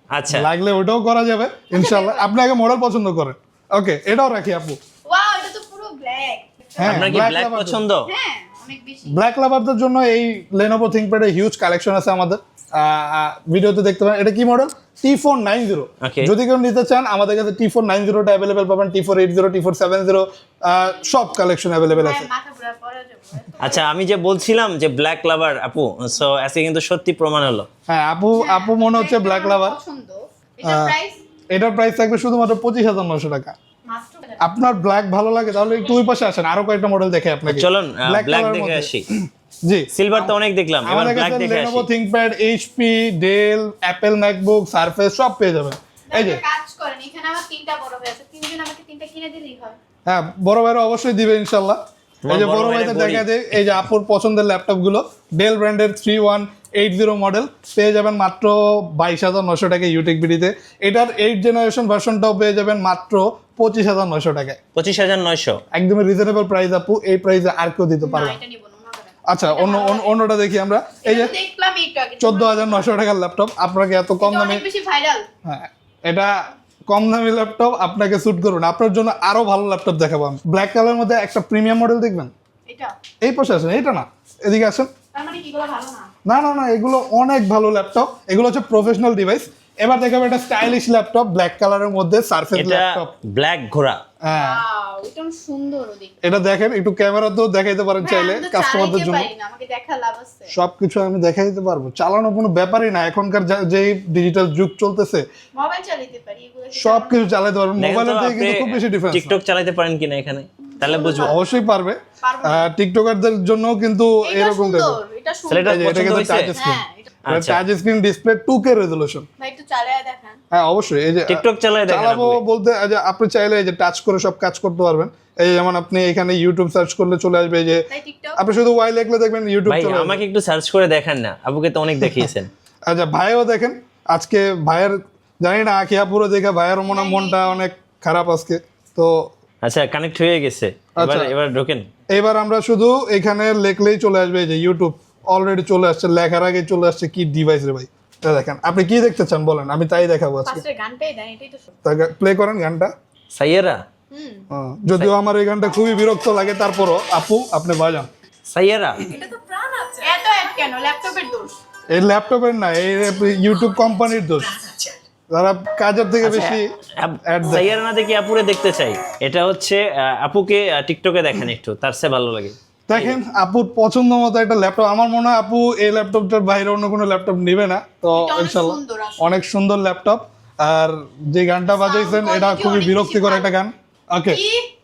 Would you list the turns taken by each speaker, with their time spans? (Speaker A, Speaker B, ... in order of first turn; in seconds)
Speaker A: 0.1-0.5, 6.8-8.1, 16.0-16.3, 23.6-27.7, 37.5-39.0, 39.9-41.9, 52.2-53.3, 64.8-65.6, 92.5-94.0, 107.8-111.3, 115.5-116.5, 117.3-117.6, 121.3-122.4, 129.7-132.5, 139.6-141.9, 153.3-153.8, 158.5-159.0, 166.2-173.2
Speaker B: 0.3-4.8, 6.8-7.8, 9.1-22.3, 27.9-29.8, 30.6-30.9, 31.5-33.5, 34.4-40.3, 40.8-46.4, 50.1-64.6, 65.7-68.4, 69.3-71.3, 72.2-74.6, 75.5-82.3, 83.2-84.9, 86.3-93.1, 94.2-94.6, 96.2-99.3, 100.5-105.3, 106.8-109.4, 110.9-115.0, 115.7-119.3, 120.5-127.8, 128.4-130.2, 132.0-132.3, 132.9-139.2, 141.0-141.3, 142.1-150.6, 151.8-152.9, 154.5-158.1, 161.9-164.6, 165.3-166.7, 167.3-167.7, 172.9-184.4
Speaker C: 1.7-2.3, 5.1-7.0, 8.1-9.2, 21.9-23.8, 28.3-31.2, 33.9-34.5, 46.1-49.8, 68.0-70.2, 71.0-72.9, 74.2-75.3, 82.7-82.9, 85.1-86.1, 94.4-96.1, 98.0-100.5, 105.5-107.3, 110.8-111.4, 112.2-112.7, 114.2-117.1, 119.4-120.4, 127.9-128.5, 136.9-137.7, 150.5-151.7, 154.1-154.4, 159.1-161.6, 164.6-165.0, 178.1-179.3, 181.7-183.5, 184.3-184.7